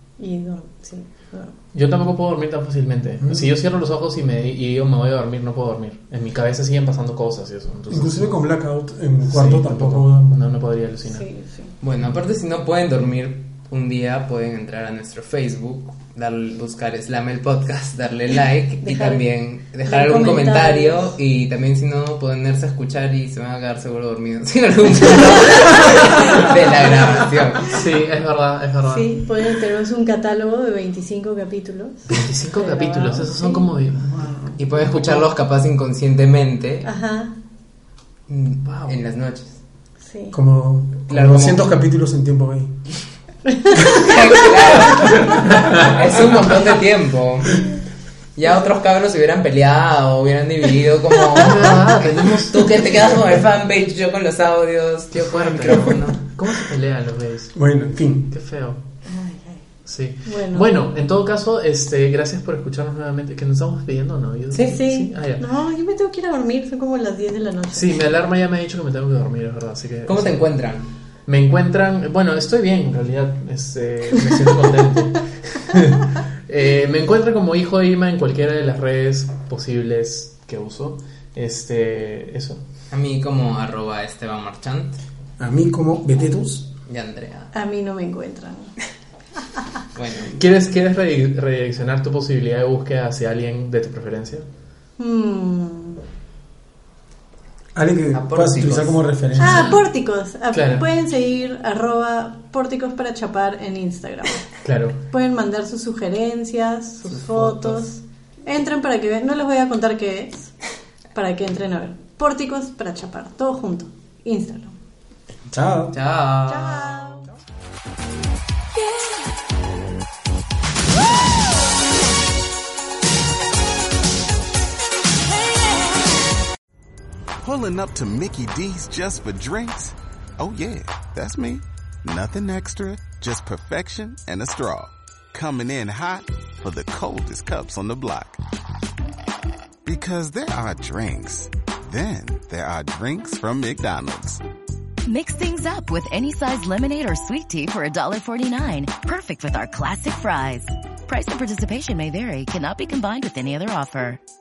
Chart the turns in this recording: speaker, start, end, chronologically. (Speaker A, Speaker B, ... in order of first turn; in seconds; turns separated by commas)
Speaker A: 0.2-1.5, Speaker B: 1.7-8.3, Speaker C: 3.2-3.6, Speaker C: 7.9-10.5, Speaker B: 9.3-11.3, Speaker A: 11.1-11.7, Speaker D: 11.8-27.8, Speaker A: 18.8-19.2, Speaker A: 19.8-21.1, Speaker B: 25.1-27.1, Speaker B: 27.6-29.1, Speaker A: 28.9-34.6, Speaker B: 32.1-35.3, Speaker D: 34.6-36.9, Speaker A: 36.9-37.3, Speaker D: 38.3-39.6, Speaker B: 38.6-39.0, Speaker A: 40.0-40.4, Speaker C: 40.3-42.7, Speaker D: 41.1-41.7, Speaker A: 43.5-44.1, Speaker D: 43.8-47.6, Speaker B: 45.5-45.9, Speaker D: 48.4-56.2, Speaker B: 51.3-52.8, Speaker B: 55.1-57.6, Speaker C: 57.5-58.3, Speaker B: 58.3-58.8, Speaker A: 59.1-59.6, Speaker B: 59.9-65.4, Speaker A: 60.2-60.7, Speaker A: 64.6-68.0, Speaker B: 67.7-70.4, Speaker D: 70.1-70.9, Speaker B: 71.3-82.6, Speaker D: 82.9-85.0, Speaker C: 85.4-86.7, Speaker D: 86.9-87.5, Speaker A: 87.5-88.7, Speaker D: 90.0-90.4, Speaker B: 90.3-94.5, Speaker A: 95.0-96.0, Speaker C: 97.8-99.8, Speaker D: 98.1-99.7, Speaker A: 99.4-104.5, Speaker B: 100.5-100.9, Speaker B: 104.6-105.0, Speaker A: 105.0-110.5, Speaker D: 107.1-107.8, Speaker A: 111.1-114.8, Speaker C: 115.5-116.0, Speaker D: 115.9-117.1, Speaker A: 116.5-117.3, Speaker E: 127.4-138.4, Speaker E: 139.8-144.4, Speaker F: 145.1-154.2